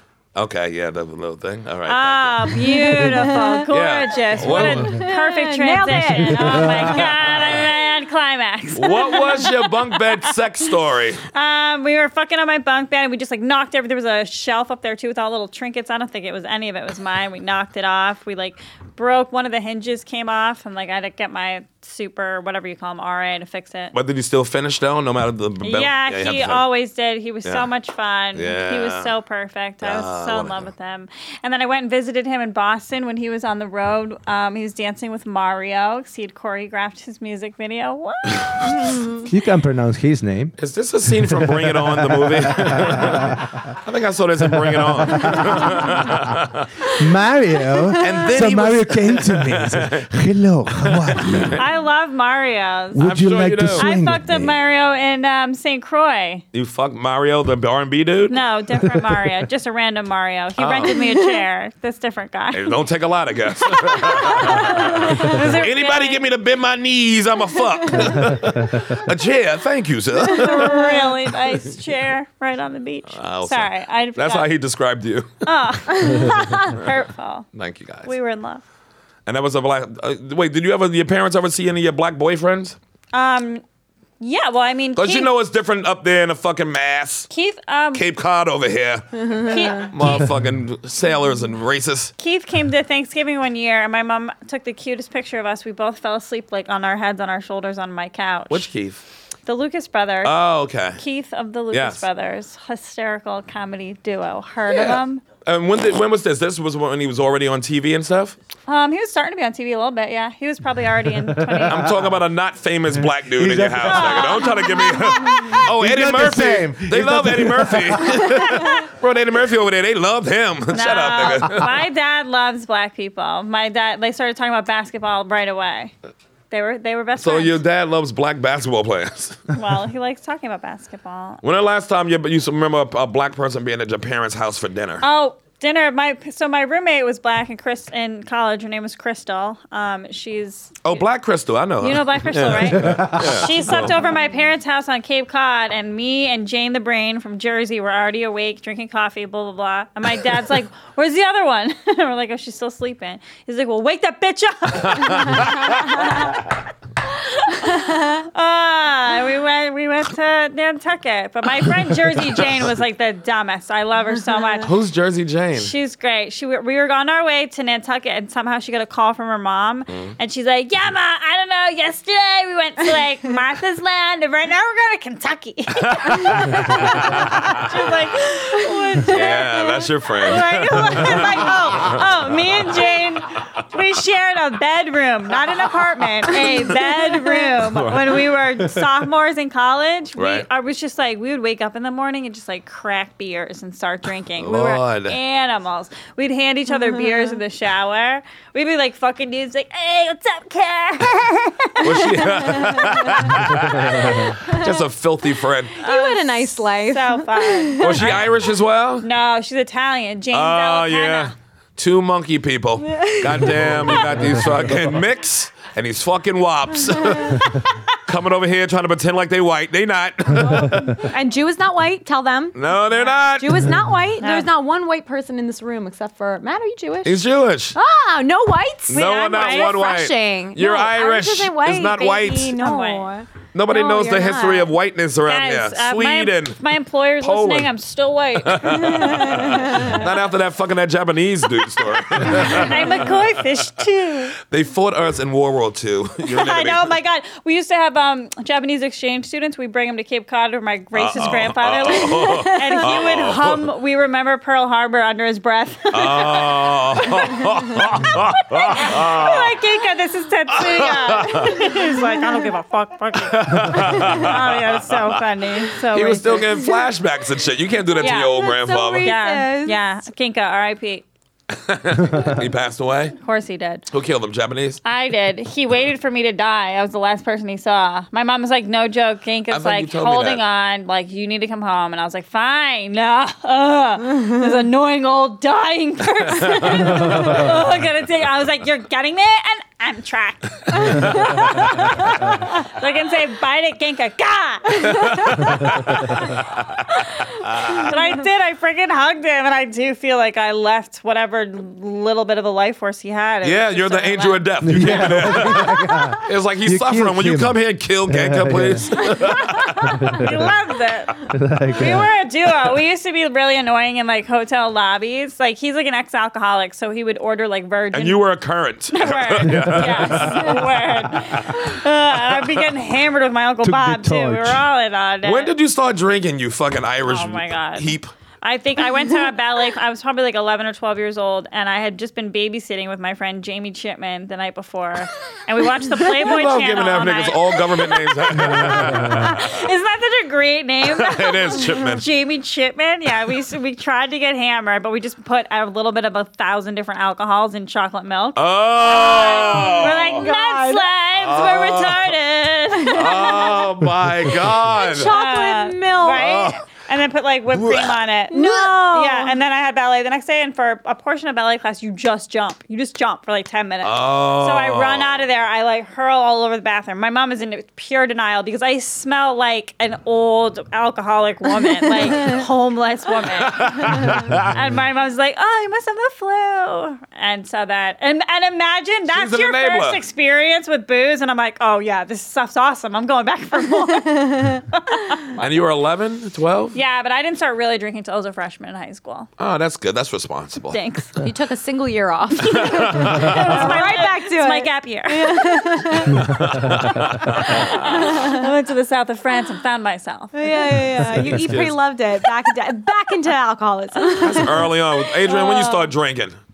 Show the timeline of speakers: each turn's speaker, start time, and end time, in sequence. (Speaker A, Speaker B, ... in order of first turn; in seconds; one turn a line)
Speaker A: 0.3-2.6
Speaker B: 1.9-10.3
Speaker C: 2.6-3.7
Speaker A: 3.7-5.0
Speaker C: 4.6-7.6
Speaker D: 6.5-7.0
Speaker A: 8.7-11.2
Speaker B: 11.3-23.9
Speaker A: 23.9-26.6
Speaker B: 25.6-38.9
Speaker A: 28.3-29.1
Speaker A: 29.8-30.7
Speaker D: 39.3-40.6
Speaker A: 40.6-46.7
Speaker D: 41.3-43.8
Speaker D: 44.7-46.3
Speaker D: 47.0-51.6
Speaker A: 48.0-50.1
Speaker A: 50.8-51.6
Speaker B: 51.5-53.0
Speaker D: 52.9-54.5
Speaker A: 53.0-53.9
Speaker B: 53.8-56.5
Speaker A: 56.5-58.4
Speaker B: 58.3-62.8
Speaker A: 60.6-61.0
Speaker C: 61.1-61.4
Speaker A: 62.5-71.0
Speaker B: 63.6-66.2
Speaker D: 68.2-68.8
Speaker B: 70.2-74.5
Speaker A: 73.1-75.5
Speaker B: 75.5-77.5
Speaker A: 77.5-78.1
Speaker B: 78.0-78.6
Speaker A: 79.3-82.8
Speaker B: 83.1-83.6
Speaker B: 84.2-85.3
Speaker A: 85.0-87.3
Speaker B: 87.3-88.0
Speaker A: 87.9-92.1
Speaker B: 89.4-90.3
Speaker B: 92.2-98.7
Speaker A: 98.5-99.0
Speaker B: 99.5-100.4
Speaker A: 100.2-101.0
Speaker B: 101.0-105.2
Speaker A: 101.7-102.0
Speaker A: 104.7-108.4
Speaker B: 108.7-112.0
Speaker D: 111.3-112.0
Speaker A: 111.7-121.7
Speaker D: 113.0-114.4
Speaker B: 113.8-115.7
Speaker D: 115.5-118.4
Speaker B: 120.7-125.9
Speaker B: 126.5-127.6
Speaker A: 127.2-129.4
Speaker B: 129.5-131.4
Speaker A: 131.4-135.1
Speaker B: 135.0-140.9
Speaker A: 140.8-144.0
Speaker B: 141.8-156.4
Speaker D: 142.9-143.4
Speaker A: 154.8-155.9
Speaker B: 157.1-164.7
Speaker A: 164.6-165.7
Speaker B: 165.5-202.0
Speaker A: 169.9-170.2
Speaker A: 175.8-177.8
Speaker C: 178.6-179.1
Speaker A: 179.1-182.0
Speaker A: 187.6-188.3
Speaker A: 190.2-190.4
Speaker A: 194.4-195.2
Speaker C: 196.7-197.4
Speaker A: 201.8-205.8
Speaker C: 202.4-203.2
Speaker B: 203.8-204.3
Speaker C: 204.4-204.7
Speaker C: 205.8-208.2
Speaker B: 205.8-208.3
Speaker A: 207.8-209.1
Speaker B: 209.0-211.3
Speaker A: 210.3-221.0
Speaker C: 212.9-214.1
Speaker B: 220.3-221.1
Speaker C: 221.0-222.6
Speaker A: 222.6-223.7
Speaker C: 223.4-227.2
Speaker B: 224.2-224.5
Speaker A: 227.0-227.8
Speaker C: 227.7-234.7
Speaker A: 228.9-232.6
Speaker B: 228.9-229.9
Speaker B: 232.6-233.1
Speaker A: 233.5-236.6
Speaker B: 235.3-240.1
Speaker A: 237.2-237.7
Speaker A: 238.4-243.6
Speaker C: 238.8-240.1
Speaker B: 242.0-244.3
Speaker A: 244.4-246.9
Speaker B: 246.2-257.4
Speaker A: 250.9-253.7
Speaker C: 252.2-252.8
Speaker A: 255.9-259.6
Speaker B: 258.4-266.5
Speaker A: 260.5-261.6
Speaker C: 261.7-262.4
Speaker A: 263.2-265.2
Speaker A: 265.9-269.1
Speaker B: 268.0-268.4
Speaker C: 268.0-269.8
Speaker B: 269.0-271.1
Speaker A: 271.5-273.2
Speaker B: 273.2-273.8
Speaker A: 273.9-274.8
Speaker B: 274.8-304.8
Speaker A: 279.5-280.4
Speaker A: 286.5-287.1
Speaker A: 294.9-296.8
Speaker A: 297.4-297.9
Speaker A: 303.4-310.3
Speaker D: 304.6-308.9
Speaker B: 305.6-306.1
Speaker B: 309.0-318.3
Speaker D: 310.0-310.2
Speaker D: 311.3-312.1
Speaker A: 317.9-322.7
Speaker B: 318.9-325.5
Speaker D: 319.5-320.2
Speaker C: 320.3-320.6
Speaker D: 323.6-324.6
Speaker A: 325.2-328.1
Speaker B: 327.0-353.6
Speaker A: 336.0-339.6
Speaker A: 340.9-342.1
Speaker A: 348.4-350.3
Speaker C: 349.1-350.9
Speaker A: 351.2-352.1
Speaker C: 352.9-353.4
Speaker A: 352.9-355.1
Speaker C: 354.7-356.3
Speaker B: 355.0-385.4
Speaker A: 356.1-356.6
Speaker A: 357.5-358.0
Speaker C: 358.3-359.4
Speaker A: 363.8-365.3
Speaker C: 371.8-372.4
Speaker A: 373.4-374.6
Speaker C: 373.9-374.2
Speaker A: 379.1-380.0
Speaker C: 383.7-384.6
Speaker A: 385.4-386.8
Speaker B: 386.7-389.3
Speaker A: 389.4-390.8
Speaker B: 390.7-391.2
Speaker C: 391.2-396.4
Speaker A: 392.4-393.8
Speaker B: 393.0-395.7
Speaker D: 396.1-397.5
Speaker A: 396.5-397.8
Speaker B: 397.7-401.0
Speaker C: 397.7-398.5
Speaker C: 400.3-404.8
Speaker D: 401.0-401.6
Speaker A: 404.2-406.4
Speaker B: 405.3-405.9